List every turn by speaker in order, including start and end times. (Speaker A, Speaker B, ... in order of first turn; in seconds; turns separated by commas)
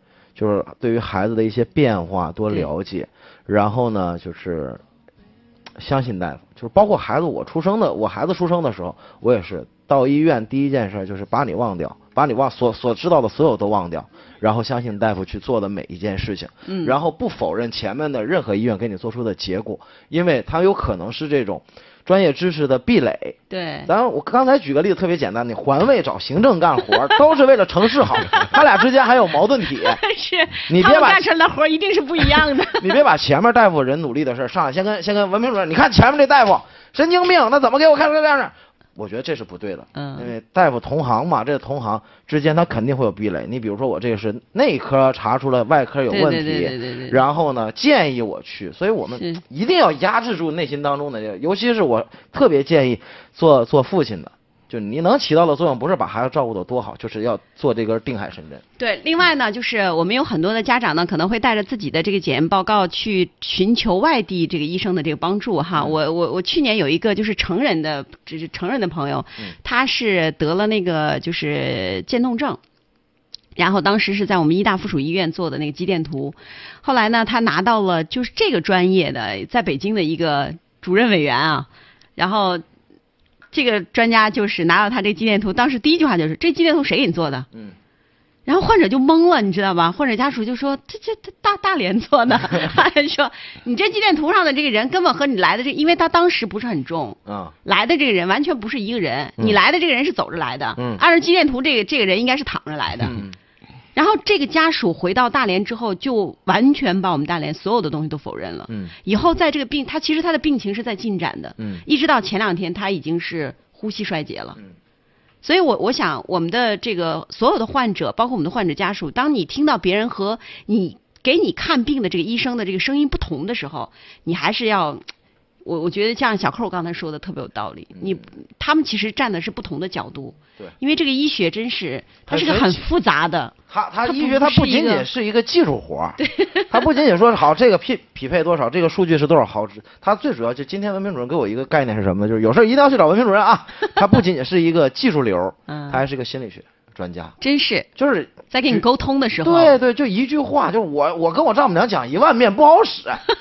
Speaker A: 0.4-4.8, Speaker A: 5.8-30.0, Speaker B: 16.7-17.0, Speaker B: 23.5-23.9, Speaker B: 28.2-28.6, Speaker B: 29.7-33.0, Speaker A: 30.7-31.3, Speaker A: 32.3-58.6, Speaker B: 40.0-40.3, Speaker B: 46.1-47.2, Speaker B: 58.8-72.6, Speaker B: 73.6-82.6, Speaker B: 83.5-87.5, Speaker B: 88.5-103.2, Speaker A: 97.3-97.5, Speaker A: 100.8-101.0, Speaker A: 103.0-103.4, Speaker B: 104.0-114.6, Speaker A: 108.7-108.9, Speaker A: 111.6-111.8, Speaker B: 115.4-125.0, Speaker B: 125.6-133.5, Speaker A: 128.0-128.2, Speaker A: 132.3-132.8, Speaker A: 133.7-147.3, Speaker B: 134.1-135.1, Speaker B: 136.2-136.8, Speaker B: 145.7-146.0, Speaker B: 147.4-147.9, Speaker A: 148.0-148.8, Speaker B: 148.5-149.8, Speaker A: 149.4-153.2